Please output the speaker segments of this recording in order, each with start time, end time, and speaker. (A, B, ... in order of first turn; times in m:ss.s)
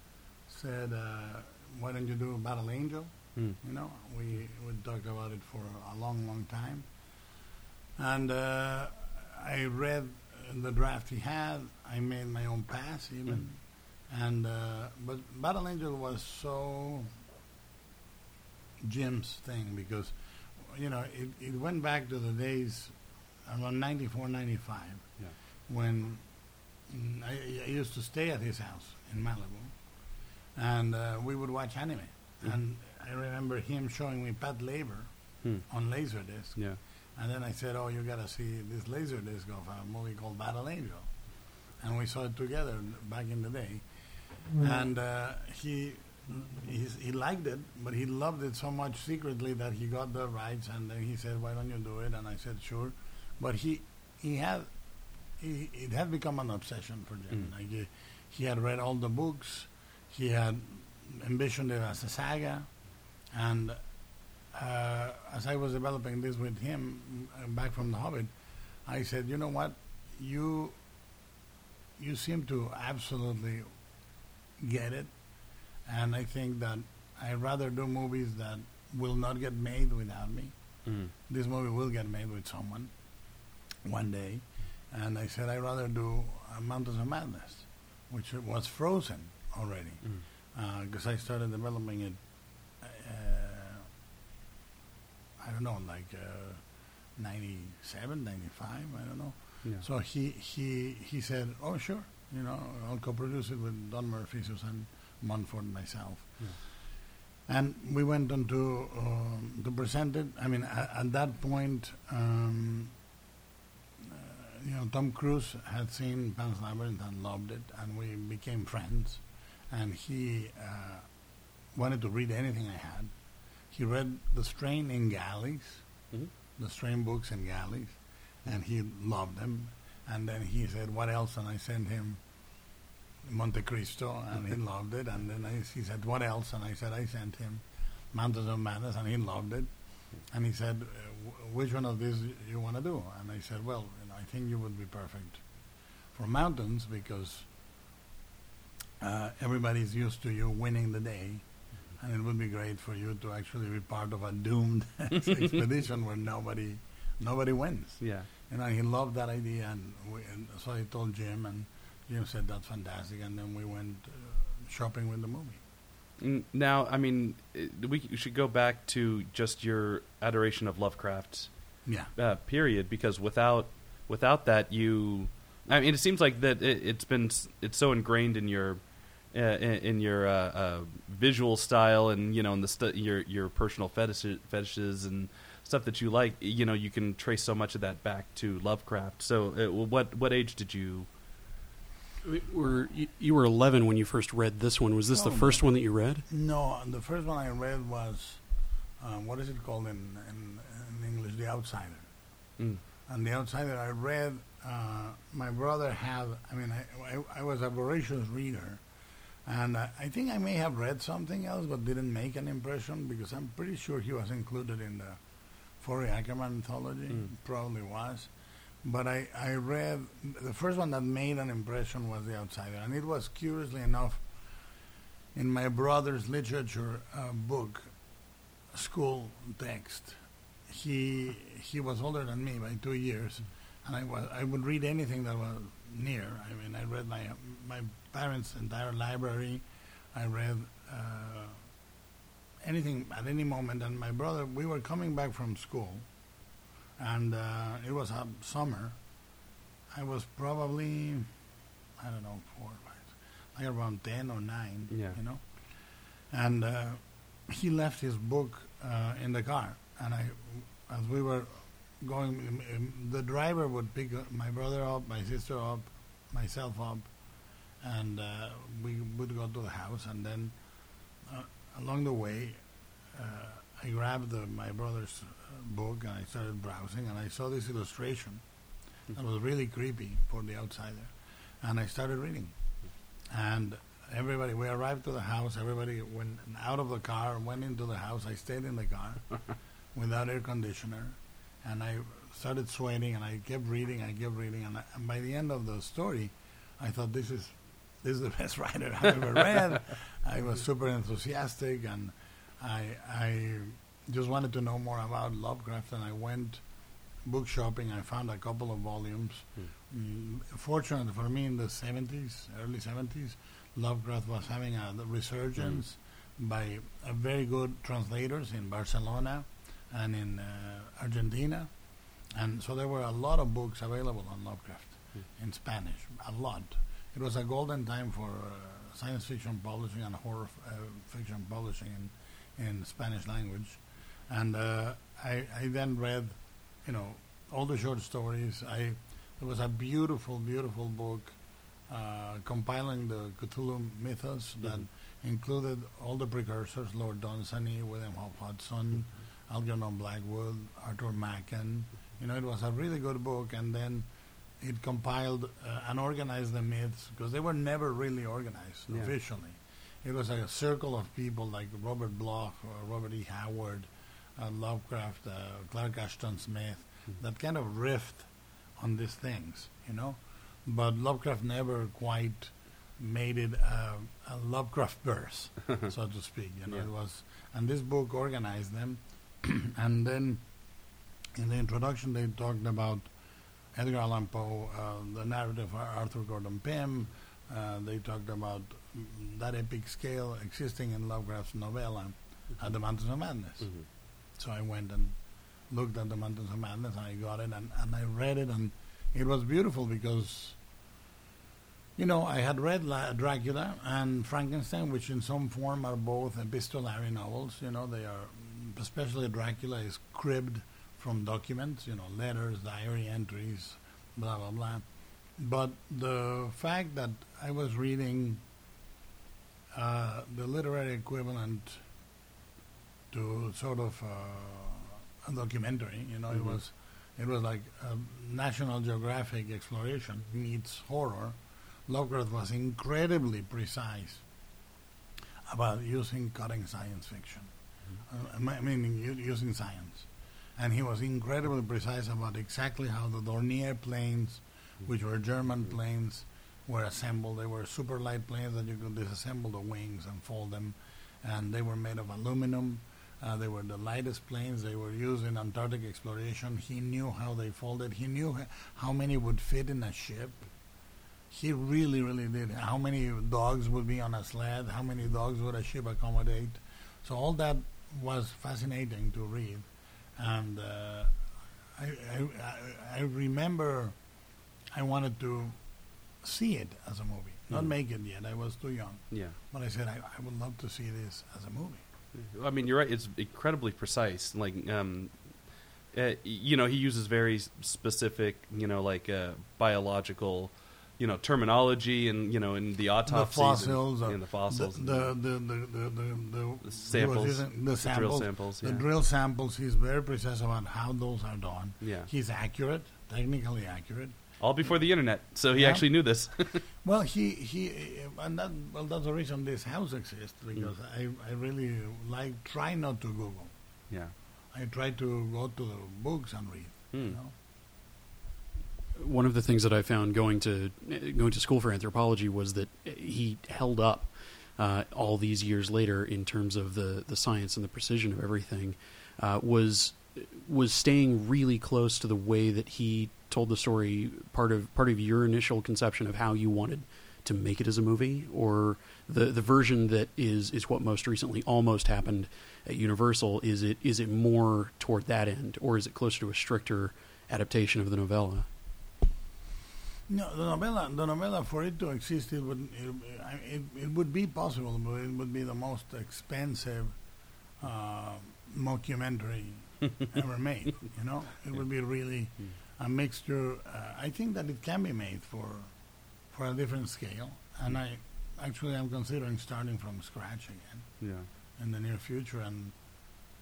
0:00.4-0:07.3 A
0:08.0-0:17.1 A
0:18.8-0:25.1 A
0:25.7-1:10.8 A
0:35.4-0:36.8 B
1:12.0-1:13.7 A
1:14.6-1:23.0 A
1:20.8-1:21.1 B
1:23.8-1:33.9 A
1:35.4-1:46.9 A
1:47.4-1:53.0 A
1:54.0-2:01.1 A
2:01.7-2:03.1 A
2:03.7-2:05.8 A
2:06.6-2:12.2 A
2:13.2-2:27.5 A
2:29.0-2:45.6 A
2:38.0-2:38.3 B
2:46.2-3:11.1 B
3:12.2-3:16.2 C
3:15.1-3:22.1 A
3:23.0-3:28.8 A
3:29.4-3:35.2 A
3:35.7-3:44.4 A
3:45.3-3:48.2 A
3:48.7-4:01.7 A
4:02.6-4:06.4 A
4:07.0-4:09.3 A
4:09.9-4:11.4 A
4:12.0-4:38.4 A
4:14.9-4:15.2 B
4:39.1-4:42.6 A
4:43.3-5:06.6 A
5:07.2-5:54.1 A
5:54.6-6:40.6 A
6:33.6-6:33.9 B
6:42.0-6:58.4 A
6:59.7-7:01.8 A
7:03.1-7:14.2 A
7:06.3-7:06.6 B
7:15.5-7:17.5 A
7:18.0-7:40.5 A
7:41.3-7:54.0 A
7:54.7-8:01.8 A
7:59.1-7:59.4 B
8:02.1-8:15.1 B
8:13.0-8:24.7 A
8:16.6-8:18.8 B
8:21.8-8:22.1 B
8:24.4-8:26.6 B
8:25.5-8:25.8 A
8:26.8-8:33.5 A
8:33.9-8:34.1 B
8:34.5-8:37.3 A
8:36.9-8:37.2 B
8:39.0-9:08.5 C
9:10.1-9:17.0 A
9:17.5-9:25.7 A
9:26.2-9:31.0 A
9:31.0-9:31.3 B
9:31.5-9:32.8 A